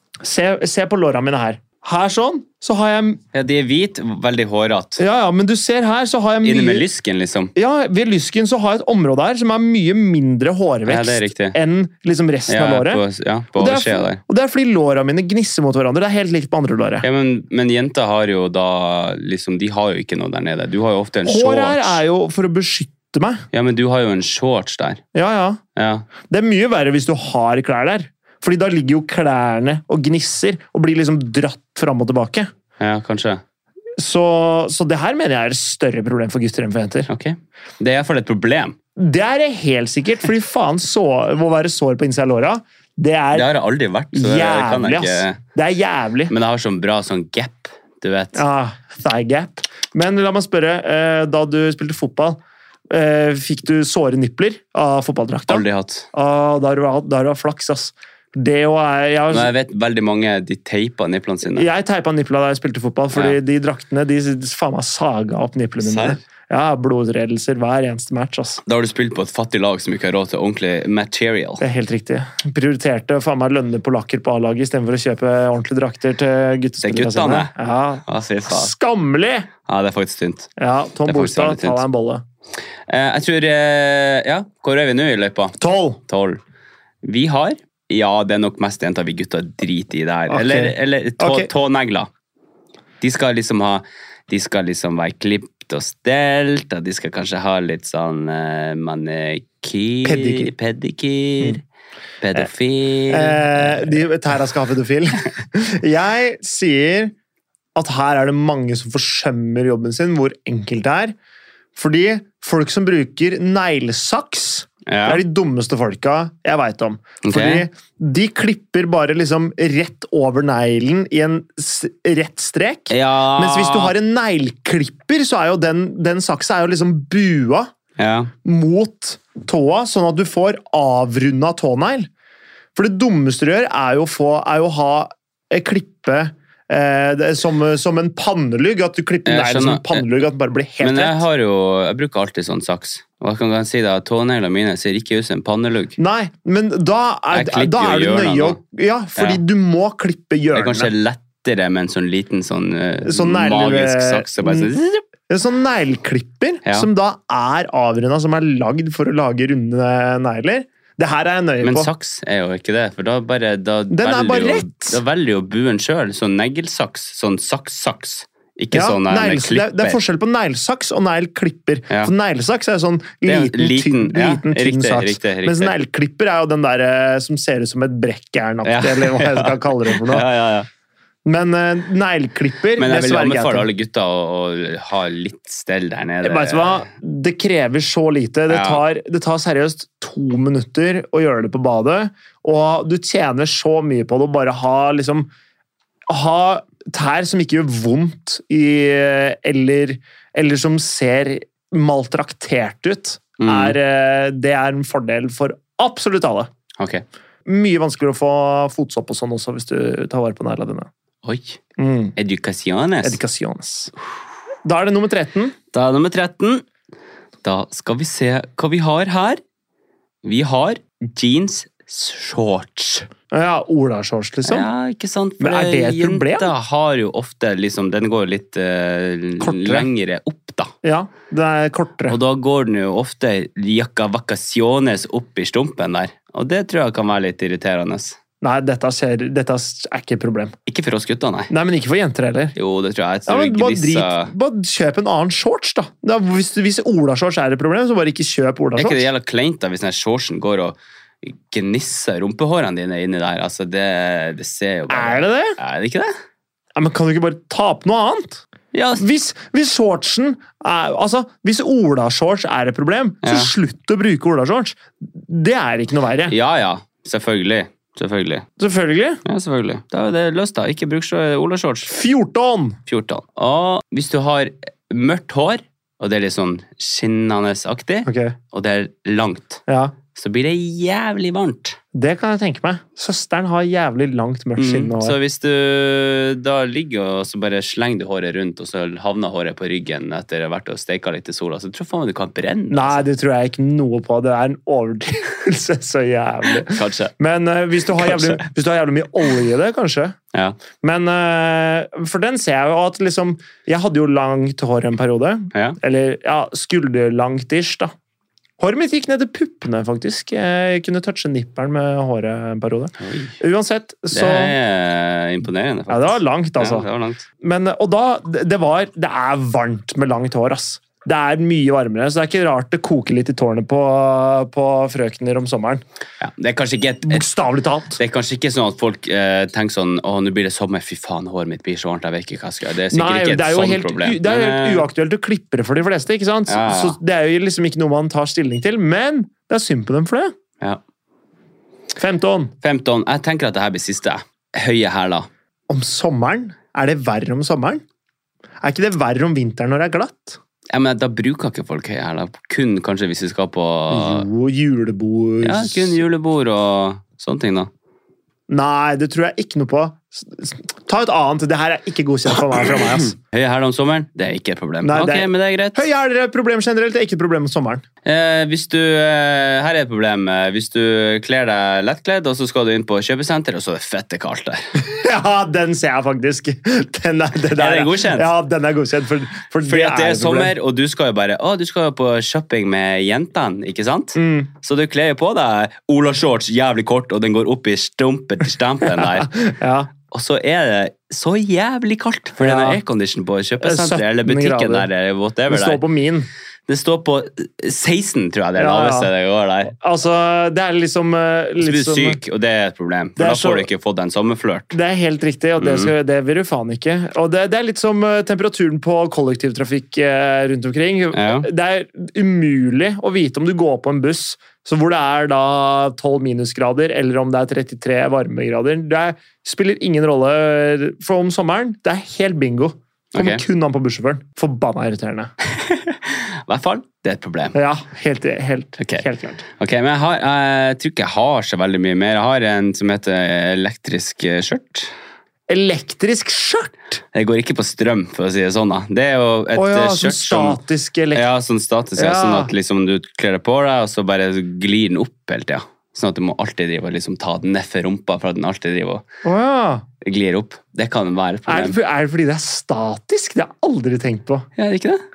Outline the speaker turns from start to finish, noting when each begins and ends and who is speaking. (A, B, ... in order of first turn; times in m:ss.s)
0:00.2-0:03.2 A
0:03.3-0:05.0 B
0:05.0-0:06.8 A
0:06.4-0:07.5 B
0:07.6-0:13.0 A
0:10.9-0:11.6 B
0:12.5-0:14.2 B
0:13.6-0:17.1 A
0:17.0-0:22.0 B
0:21.2-0:23.4 A
0:23.5-0:25.0 B
0:25.1-0:25.6 A
0:25.8-0:26.1 B
0:26.3-0:32.5 A
0:32.8-0:33.4 B
0:34.0-0:37.1 A
0:37.1-0:38.8 B
0:39.0-0:43.5 A
0:43.3-0:45.4 B
0:44.1-0:46.3 A
0:46.3-0:48.4 B
0:48.3-0:52.4 A
0:52.9-0:59.5 A
0:55.5-0:56.1 B
0:59.3-1:01.7 B
1:01.5-1:08.6 A
1:05.8-1:06.2 B
1:08.6-1:11.6 B
1:11.6-1:19.5 A
1:16.8-1:17.5 B
1:18.1-1:18.7 B
1:19.7-1:20.5 B
1:20.6-1:22.2 A
1:21.0-1:21.8 B
1:22.9-1:25.6 B
1:25.6-1:26.0 A
1:26.1-1:26.4 B
1:27.0-1:32.1 B
1:30.3-1:31.5 A
1:33.0-1:41.6 B
1:40.0-1:40.5 A
1:42.2-1:44.0 B
1:43.1-1:47.1 A
1:47.8-1:51.1 A
1:51.8-2:07.7 A
1:54.9-1:55.2 B
1:57.2-1:57.7 B
2:02.9-2:03.9 B
2:08.0-2:08.3 B
2:08.4-2:12.1 A
2:12.8-2:21.2 A
2:19.3-2:20.0 B
2:20.8-2:26.0 B
2:26.0-2:30.9 A
2:27.3-2:28.6 B
2:29.2-2:29.4 B
2:30.6-2:35.0 B
2:33.0-2:34.7 A
2:35.3-2:41.9 A
2:41.6-2:50.0 B
2:43.9-2:45.0 A
2:48.7-3:00.3 A
2:53.3-2:55.7 B
2:58.6-3:00.7 B
3:01.3-3:03.7 A
3:02.8-3:06.8 B
3:06.2-3:15.3 A
3:08.5-3:08.8 B
3:16.1-3:26.5 A
3:23.4-3:23.8 B
3:26.8-3:27.0 B
3:27.5-3:30.9 A
3:31.2-3:31.6 B
3:31.8-3:32.1 A
3:32.2-3:33.2 B
3:33.0-3:33.9 A
3:34.6-3:35.6 A
3:35.7-3:36.6 B
3:37.4-3:39.4 B
3:40.2-3:43.1 B
3:43.3-3:44.7 A
3:44.4-3:50.7 B
3:45.4-3:46.5 A
3:49.4-3:49.9 A
3:50.8-3:52.2 A
3:52.1-3:58.2 B
3:58.4-4:00.5 A
4:00.7-4:01.5 B
4:01.5-4:02.6 A
4:02.6-4:04.3 B
4:03.3-4:09.0 A
4:08.8-4:16.1 B
4:14.9-4:15.6 A
4:16.8-4:18.4 A
4:18.7-4:19.0 B
4:19.0-4:26.3 A
4:23.2-4:23.5 B
4:26.3-4:28.4 B
4:28.6-4:29.2 A
4:29.2-4:31.9 B
4:31.9-4:32.8 A
4:32.9-4:39.6 B
4:38.1-4:38.4 A
4:39.7-4:40.0 A
4:40.1-4:41.8 B
4:41.9-4:45.2 A
4:44.6-4:53.0 B
4:52.7-5:00.2 A
4:56.5-4:57.1 B
4:57.9-4:58.4 B
5:00.8-5:07.9 A
5:08.6-5:14.6 A
5:13.0-5:13.4 B
5:14.1-5:17.3 B
5:15.9-5:16.9 A
5:17.4-5:25.8 A
5:26.2-5:27.3 B
5:27.1-5:28.0 A
5:28.0-5:34.9 B
5:32.9-5:40.3 A
5:36.5-5:37.0 B
5:42.0-5:42.5 A
5:42.6-5:45.3 B
5:45.7-5:47.8 A
5:48.6-5:50.4 A
5:50.7-5:54.3 B
5:53.9-5:56.0 A
5:55.4-5:57.7 B
5:58.5-6:03.2 A
6:02.9-6:05.8 B
6:04.8-6:07.8 A
6:08.0-6:14.6 B
6:14.8-6:20.5 A
6:17.5-6:18.3 B
6:19.6-6:29.3 B
6:24.2-6:24.5 A
6:29.0-6:29.9 A
6:30.1-6:35.8 B
6:32.4-6:32.8 A
6:33.6-6:34.9 A
6:35.5-6:36.3 A
6:36.7-6:39.7 B
6:38.6-6:39.1 A
6:39.7-6:42.2 A
6:41.6-6:44.8 B
6:43.2-6:43.7 A
6:44.7-7:05.3 A
6:45.6-6:45.9 B
6:51.1-6:51.5 B
7:03.1-7:03.4 B
7:05.4-7:07.6 B
7:07.5-7:09.4 A
7:08.8-7:14.9 B
7:15.5-7:17.0 A
7:17.1-7:20.6 B
7:19.6-7:21.2 A
7:21.1-7:29.0 B
7:22.0-7:22.5 A
7:29.2-7:29.8 A
7:30.0-7:31.8 B
7:31.5-7:34.5 A
7:34.6-7:35.0 B